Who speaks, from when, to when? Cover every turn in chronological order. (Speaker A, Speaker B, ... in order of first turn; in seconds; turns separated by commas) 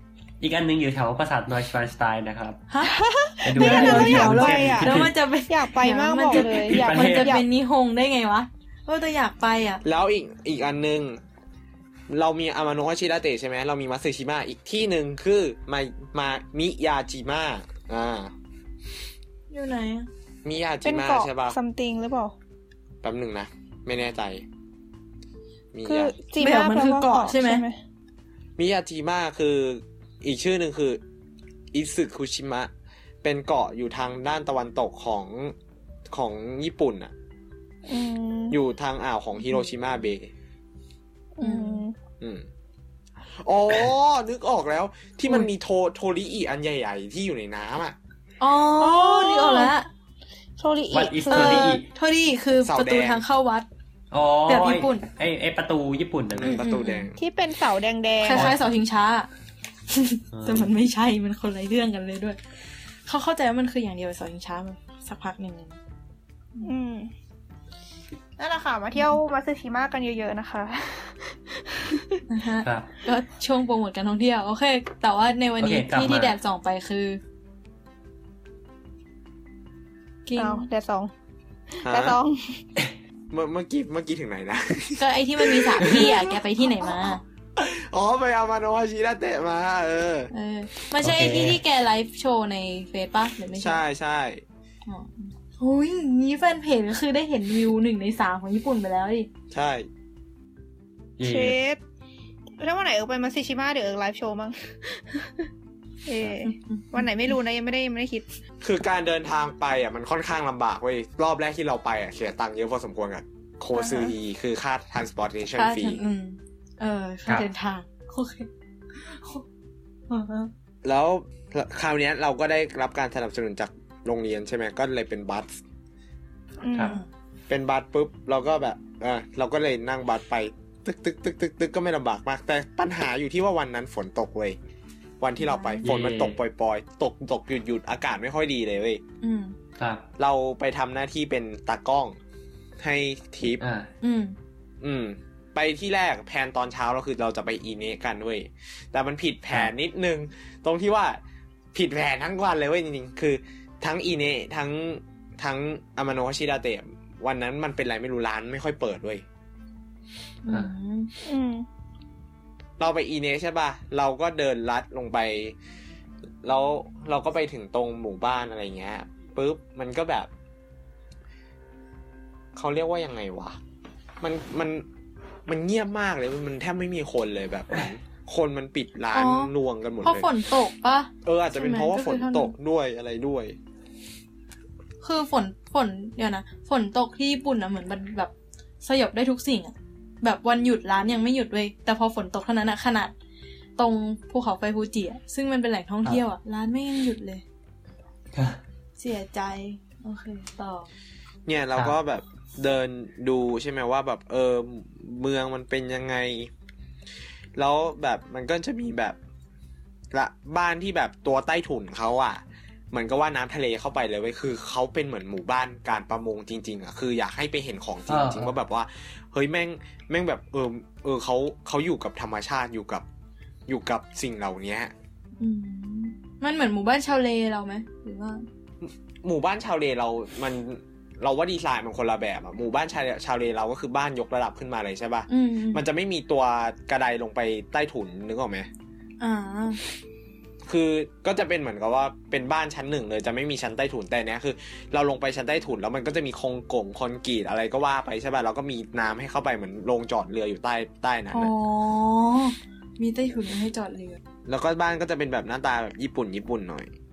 Speaker A: 0.4-2.6, Speaker B: 2.7-3.0, Speaker C: 2.8-7.4, Speaker A: 3.4-5.1, Speaker B: 3.5-9.8, Speaker A: 6.3-7.4, Speaker D: 9.8-11.2, Speaker D: 12.1-18.3, Speaker B: 19.5-20.1, Speaker D: 20.4-21.6, Speaker C: 20.8-22.3, Speaker D: 23.0-24.4, Speaker D: 25.7-26.1, Speaker C: 25.8-27.8, Speaker B: 26.4-27.6, Speaker D: 28.6-31.0, Speaker D: 31.7-32.7, Speaker D: 33.2-35.5, Speaker D: 36.1-37.1, Speaker C: 37.9-38.6, Speaker D: 38.5-40.3, Speaker C: 41.4-41.9, Speaker B: 41.4-41.8, Speaker D: 42.2-42.5, Speaker D: 43.3-48.0, Speaker B: 48.4-49.9, Speaker C: 48.8-49.7, Speaker C: 50.6-51.8, Speaker A: 50.9-51.8, Speaker B: 51.3-53.7, Speaker D: 52.6-53.2, Speaker A: 54.1-56.6, Speaker B: 54.5-55.0, Speaker D: 56.3-57.2, Speaker B: 56.5-57.1, Speaker C: 57.1-58.5, Speaker B: 58.2-59.3, Speaker A: 58.3-58.6, Speaker B: 59.9-62.4, Speaker A: 60.3-60.7, Speaker B: 63.0-65.8, Speaker C: 66.6-67.1, Speaker C: 68.4-72.2, Speaker B: 72.3-77.2, Speaker A: 72.6-72.9, Speaker A: 75.6-76.3, Speaker B: 80.2-80.7, Speaker C: 80.4-81.1, Speaker C: 81.7-82.6, Speaker D: 81.8-82.2, Speaker D: 83.3-86.9, Speaker B: 85.0-87.2, Speaker D: 87.5-90.3, Speaker B: 90.3-93.8, Speaker A: 91.0-91.6, Speaker D: 93.6-94.4, Speaker B: 94.9-99.3, Speaker D: 99.5-99.9, Speaker A: 101.2-101.6, Speaker C: 101.2-101.8, Speaker C: 102.6-105.5, Speaker C: 106.0-108.3, Speaker B: 106.4-107.3, Speaker D: 108.6-116.0, Speaker C: 113.8-114.1, Speaker B: 115.5-119.4, Speaker B: 120.1-120.5, Speaker D: 120.8-125.6, Speaker C: 126.6-127.0, Speaker A: 126.7-127.0, Speaker D: 127.5-134.6, Speaker D: 135.2-139.0, Speaker B: 135.4-135.8, Speaker A: 135.8-136.4, Speaker B: 139.2-139.6, Speaker A: 139.8-140.0, Speaker D: 140.2-142.2, Speaker D: 142.8-143.6, Speaker A: 143.6-143.9, Speaker B: 144.0-144.3, Speaker D: 144.8-151.2, Speaker D: 151.7-159.2, Speaker B: 160.4-161.1, Speaker C: 161.2-161.7, Speaker D: 162.8-165.6, Speaker D: 166.4-170.3, Speaker D: 172.5-173.6, Speaker D: 174.2-174.9, Speaker D: 175.5-180.3, Speaker B: 179.1-179.5, Speaker B: 180.0-182.5, Speaker D: 181.2-183.6, Speaker B: 185.0-193.1, Speaker B: 193.8-197.4, Speaker A: 198.3-198.6, Speaker B: 199.0-200.9, Speaker D: 201.4-206.5, Speaker D: 207.6-209.2, Speaker D: 210.1-223.0, Speaker A: 218.1-218.5, Speaker D: 223.7-224.9, Speaker B: 225.4-228.4, Speaker D: 228.8-238.7, Speaker B: 235.3-235.8, Speaker B: 239.2-239.8, Speaker D: 240.7-251.5, Speaker B: 251.3-254.2, Speaker D: 254.4-256.9